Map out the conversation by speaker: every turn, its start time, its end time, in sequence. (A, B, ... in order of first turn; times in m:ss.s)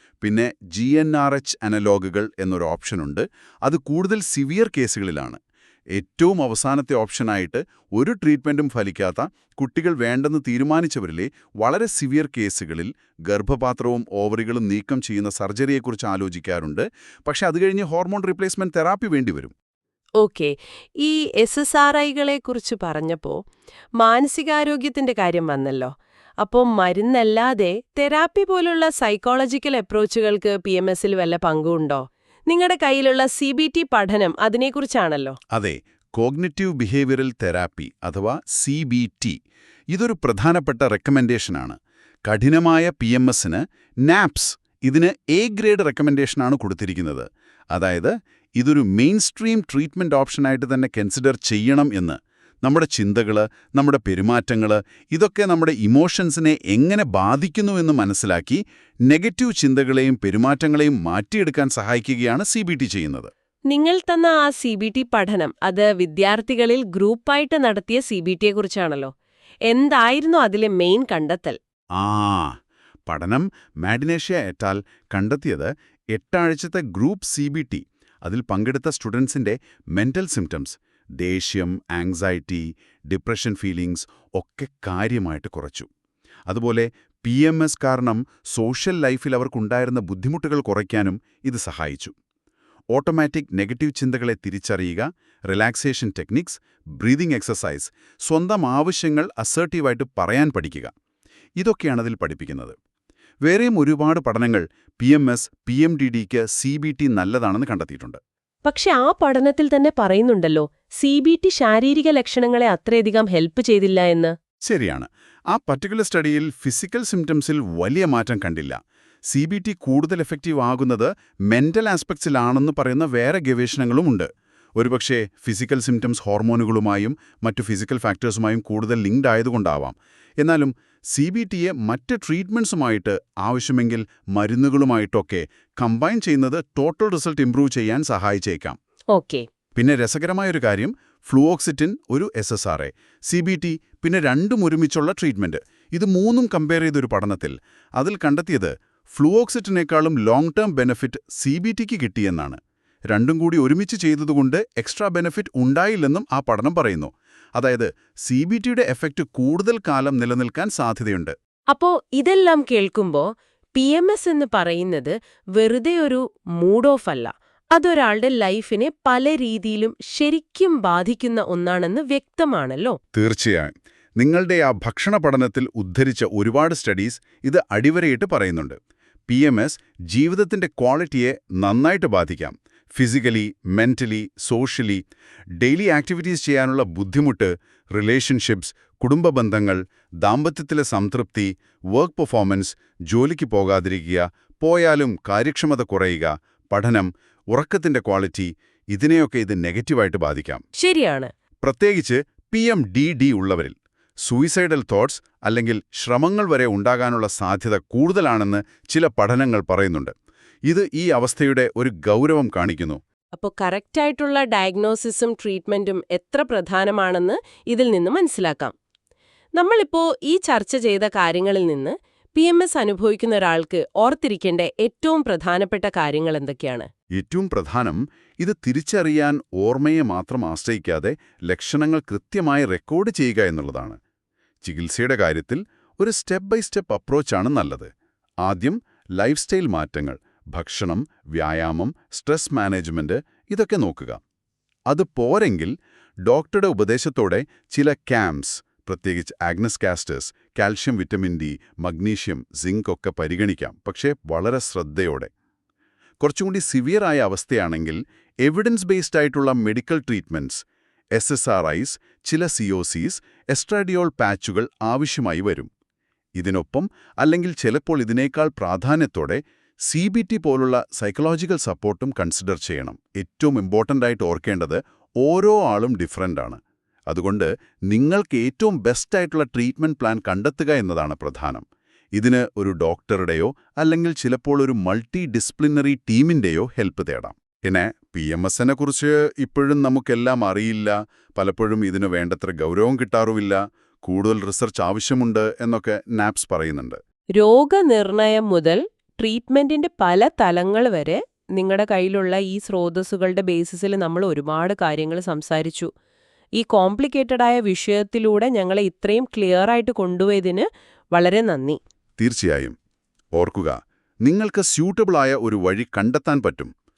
0:00.2-0:05.4 A
0:05.9-0:19.5 A
0:20.2-0:23.4 B
0:24.0-0:35.4 B
0:35.5-0:39.4 A
0:39.9-1:03.3 A
1:03.7-1:09.1 B
1:09.7-1:11.6 B
1:12.0-1:25.9 A
1:26.5-1:32.1 A
1:32.9-1:40.9 A
1:41.6-1:42.8 A
1:43.5-1:48.2 A
1:48.6-1:54.3 B
1:54.7-1:58.8 A
1:59.3-2:18.8 A
2:19.1-2:19.5 B
2:19.8-2:41.4 A
2:41.7-2:53.0 B
2:53.1-3:05.0 A
3:05.6-3:20.6 A
3:20.8-3:21.3 B
3:21.6-3:30.1 A
3:30.7-3:33.0 A
3:33.4-3:38.7 B
3:39.6-3:46.9 B
3:47.2-3:54.0 A
3:54.6-3:57.9 A
3:58.4-4:04.2 A
4:04.9-4:05.7 A
4:06.3-4:15.3 A
4:16.2-4:20.6 A
4:21.2-4:25.7 A
4:26.4-4:41.6 A
4:42.2-4:57.0 A
4:57.4-5:05.9 B
5:06.6-5:11.8 B
5:12.2-5:12.8 A
5:13.4-5:16.7 A